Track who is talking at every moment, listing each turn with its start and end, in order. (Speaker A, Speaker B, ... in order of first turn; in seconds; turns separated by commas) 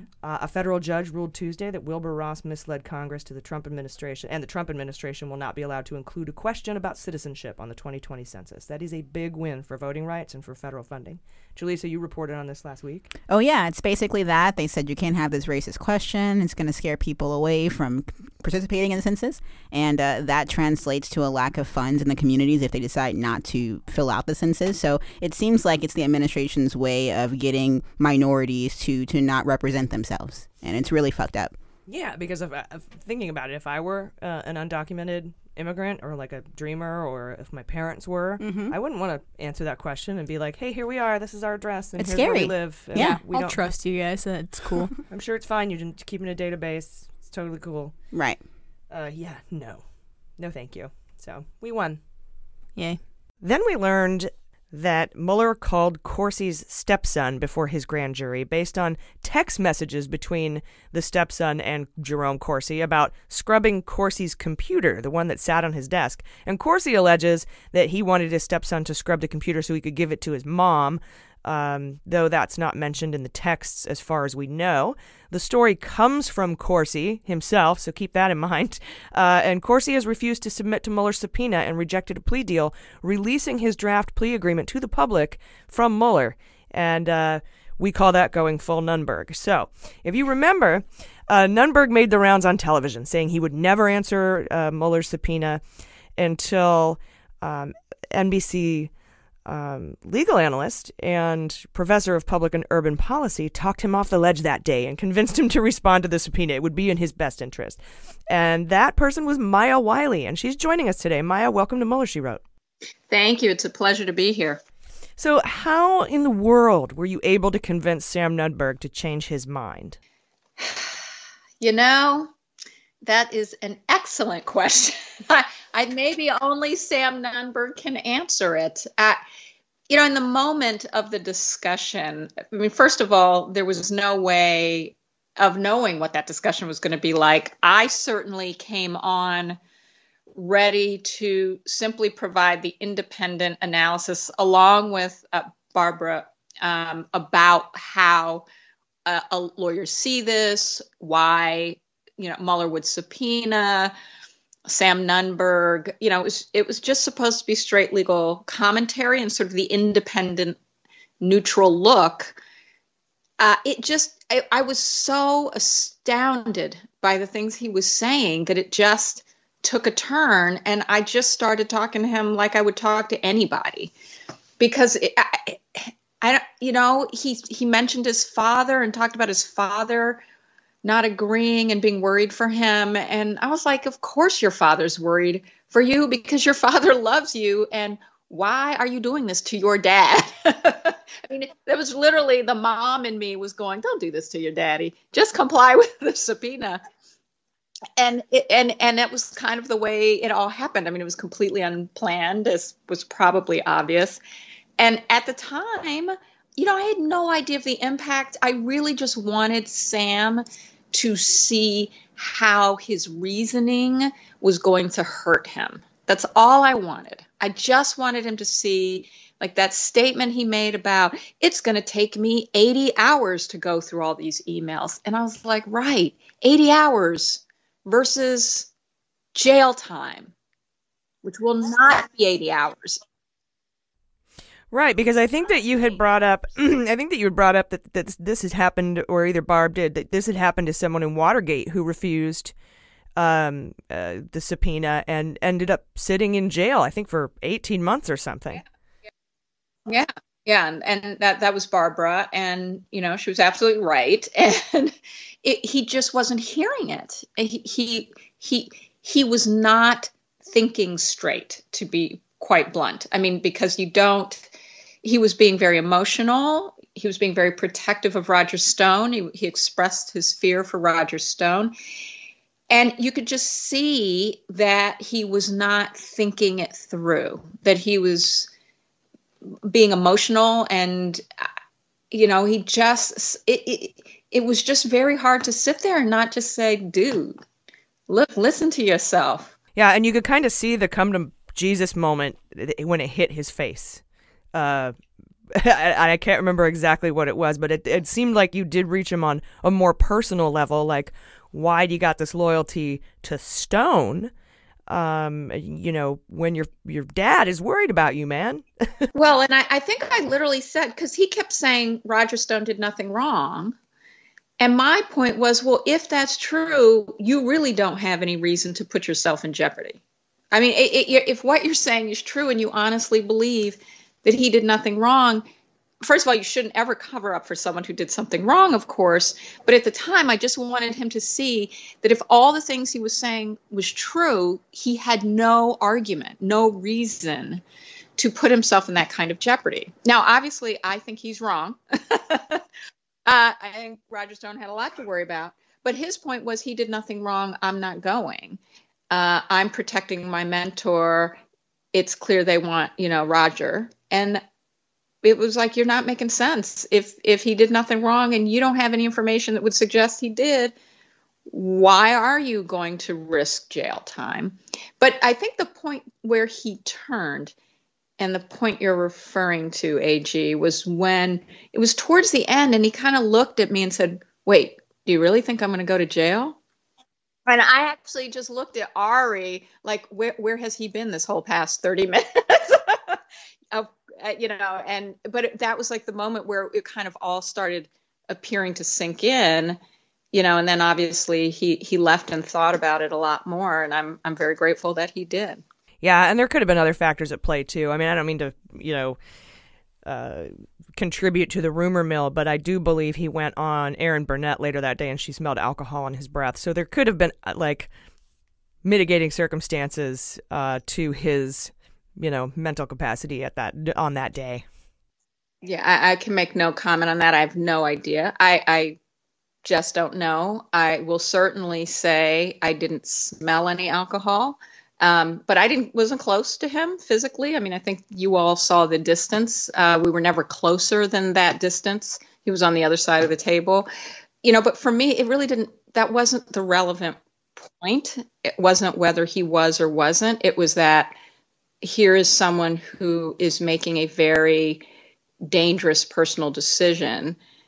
Speaker A: 0.2-13.1, Speaker B: 13.3-31.5, Speaker A: 31.9-43.6, Speaker B: 38.4-38.7, Speaker B: 42.0-43.2, Speaker C: 42.9-44.9, Speaker A: 45.1-47.9, Speaker B: 48.1-48.4, Speaker A: 48.9-49.8, Speaker A: 50.4-52.0, Speaker A: 53.4-95.6, Speaker A: 96.2-98.9, Speaker A: 99.5-112.4, Speaker D: 113.1-114.6, Speaker A: 115.2-120.0, Speaker D: 120.6-120.9, Speaker D: 121.6-122.3, Speaker D: 123.0-129.2, Speaker D: 129.9-139.6, Speaker D: 140.3-148.4, Speaker D: 149.1-153.9, Speaker D: 154.7-160.6, Speaker D: 161.2-162.3, Speaker D: 163.4-173.9, Speaker D: 174.6-175.6, Speaker D: 176.2-180.2, Speaker D: 180.8-196.8, Speaker D: 198.0-204.2, Speaker D: 204.8-228.7, Speaker D: 229.3-230.3, Speaker D: 231.2-233.0, Speaker A: 234.7-242.5, Speaker A: 243.2-248.6, Speaker D: 249.9-264.5, Speaker D: 265.0-271.7, Speaker D: 272.7-278.5, Speaker D: 279.6-281.2, Speaker D: 282.1-287.4, Speaker D: 288.1-289.5, Speaker A: 289.8-294.0, Speaker A: 294.5-295.0, Speaker A: 295.5-304.3, Speaker A: 304.9-309.1, Speaker D: 309.1-313.8, Speaker D: 314.6-320.0, Speaker D: 320.5-325.4, Speaker D: 326.0-337.6, Speaker D: 338.2-342.6, Speaker D: 343.2-348.6, Speaker D: 349.1-351.4, Speaker D: 351.9-354.4, Speaker D: 355.2-360.7, Speaker D: 361.5-367.5, Speaker D: 368.2-376.6, Speaker D: 377.4-383.2, Speaker D: 383.7-389.8, Speaker D: 390.3-395.6, Speaker A: 396.0-399.2, Speaker A: 400.0-407.9, Speaker A: 408.8-414.6, Speaker D: 415.6-419.0, Speaker D: 419.6-433.9, Speaker D: 434.4-441.1, Speaker D: 441.8-444.8, Speaker D: 445.4-447.4